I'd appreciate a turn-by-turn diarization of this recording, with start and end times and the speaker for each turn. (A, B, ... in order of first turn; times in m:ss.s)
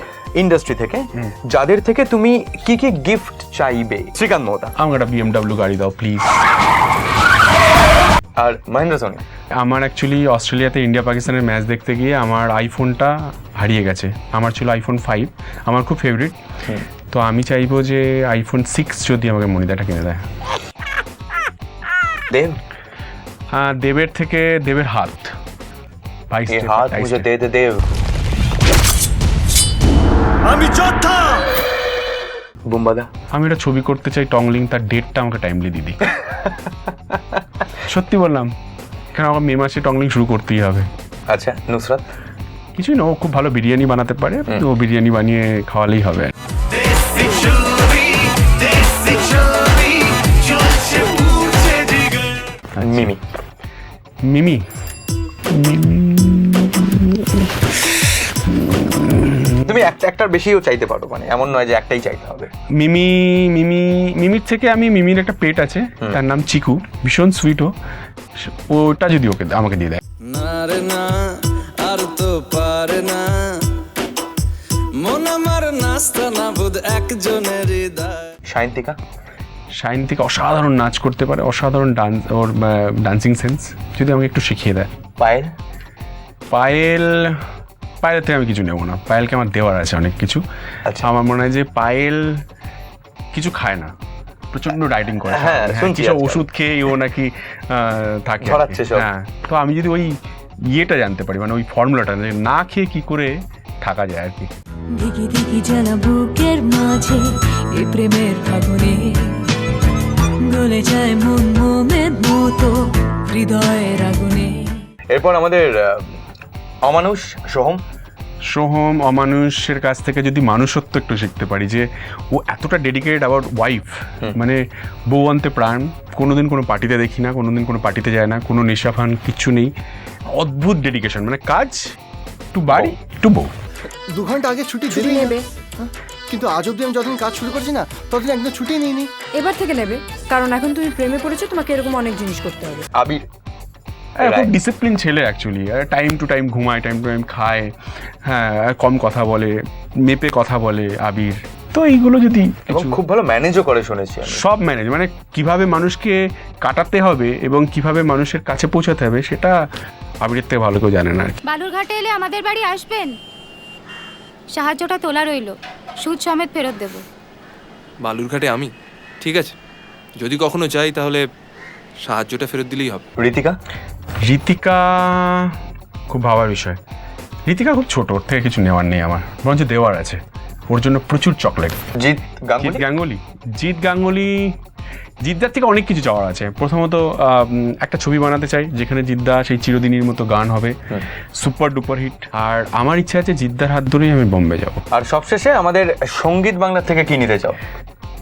0:00.4-0:04.7 A
0:04.8-0:06.3 B
0:08.4-0:09.2 A
0:09.6-0:16.4 B
0:17.1-0:20.2 B
0:22.3-0:22.6 A
0:23.5-0:25.3 B
0:26.3-0:27.3 B
0:26.5-0:27.8 A
0:32.7-0:33.1 A
0:33.3-0:36.0 B
0:37.9-0:38.5 B
0:39.1-0:40.9 B
0:41.3-0:42.0 A
0:42.8-0:46.3 B
0:52.8-0:53.1 B
0:52.8-0:53.2 A
0:54.3-0:54.6 B
0:55.5-0:57.7 B
0:58.5-0:59.6 B
0:59.6-1:02.5 A
1:02.8-1:07.7 B
1:08.4-1:10.0 B
1:10.3-1:13.7 C
1:15.0-1:18.3 C
1:18.5-1:19.0 A
1:19.8-1:24.9 B
1:25.2-1:25.5 A
1:26.5-1:27.4 B
1:28.0-1:30.4 B
1:31.0-1:32.4 B
1:33.3-1:33.9 B
1:34.5-1:40.2 B
1:35.2-1:36.4 A
1:38.4-1:39.1 A
1:40.7-1:44.5 B
1:45.0-1:47.2 D
1:47.7-1:49.5 D
1:50.4-1:54.7 D
1:55.1-1:56.2 A
1:56.8-1:57.8 A
1:58.5-2:09.7 B
2:10.3-2:11.8 B
2:12.5-2:13.5 B
2:14.1-2:19.1 E
2:19.4-2:22.9 F
2:23.0-2:23.2 A
2:24.2-2:27.7 B
2:24.2-2:24.5 A
2:28.2-2:33.0 B
2:32.7-2:34.4 A
2:34.3-2:39.6 B
2:40.2-2:41.4 B
2:41.5-2:43.1 G
2:44.5-2:47.0 G
2:48.0-2:48.7 H
2:49.2-2:49.5 H
2:50.2-2:51.2 H
2:52.0-2:53.0 H
2:53.2-2:53.6 A
2:54.3-2:55.5 B
2:56.1-2:56.8 B
2:57.5-3:00.2 B
3:00.7-3:01.8 B
3:02.0-3:02.8 A
3:02.6-3:04.5 B
3:05.2-3:10.8 B
3:11.4-3:14.8 B
3:14.9-3:17.6 A